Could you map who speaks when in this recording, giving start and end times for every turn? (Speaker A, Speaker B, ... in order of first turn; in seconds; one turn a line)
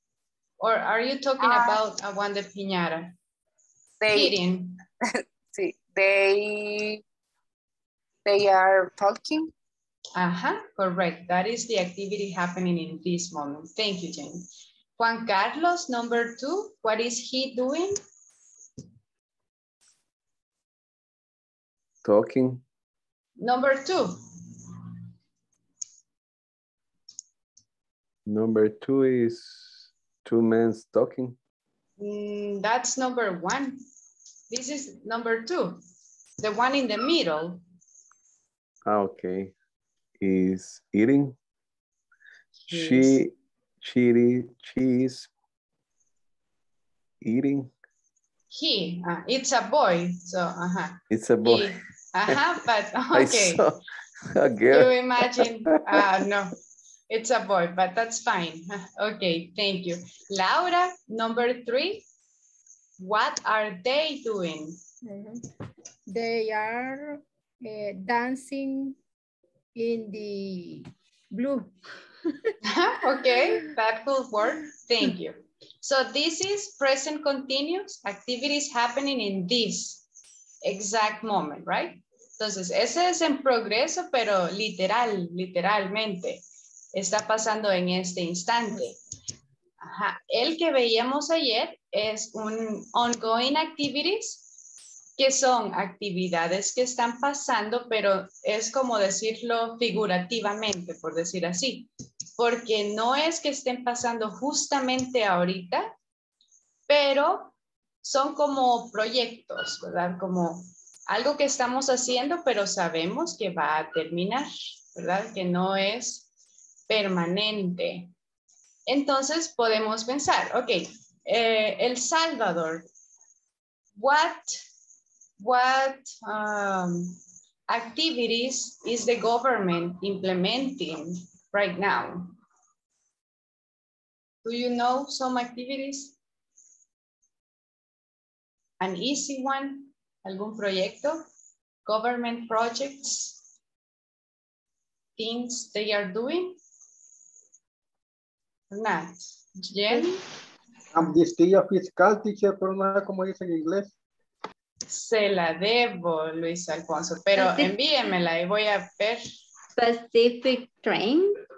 Speaker A: 0.6-3.1
Speaker B: 1.4-1.8
Speaker B: 4.0-4.4
Speaker A: 4.1-4.7
Speaker B: 5.5-7.0
Speaker B: 8.3-9.5
Speaker A: 10.2-18.0
Speaker C: 22.0-22.6
Speaker A: 23.4-24.1
Speaker C: 28.3-31.4
Speaker A: 32.0-33.8
Speaker A: 34.5-35.8
Speaker A: 36.4-37.6
Speaker C: 38.9-39.5
Speaker C: 40.2-41.4
Speaker C: 42.7-45.3
Speaker A: 42.7-43.2
Speaker C: 47.2-47.7
Speaker A: 48.5-53.6
Speaker C: 51.1-52.4
Speaker C: 53.1-55.4
Speaker A: 54.7-56.6
Speaker A: 57.1-62.1
Speaker A: 63.0-64.8
Speaker D: 65.0-65.4
Speaker D: 66.1-69.0
Speaker D: 69.8-71.7
Speaker A: 72.7-80.0
Speaker D: 73.2-73.7
Speaker A: 80.6-89.0
Speaker A: 89.8-94.5
Speaker A: 95.2-105.9
Speaker A: 106.9-116.3
Speaker A: 116.9-118.1
Speaker A: 118.9-122.9
Speaker A: 124.0-124.6
Speaker A: 125.4-127.2
Speaker A: 127.7-132.3
Speaker A: 134.4-136.2
Speaker A: 138.8-141.2
Speaker A: 141.8-143.4
Speaker A: 145.2-146.6
Speaker A: 148.7-150.2
Speaker E: 150.9-153.9
Speaker A: 154.9-159.2
Speaker F: 157.3-157.8
Speaker F: 159.8-161.4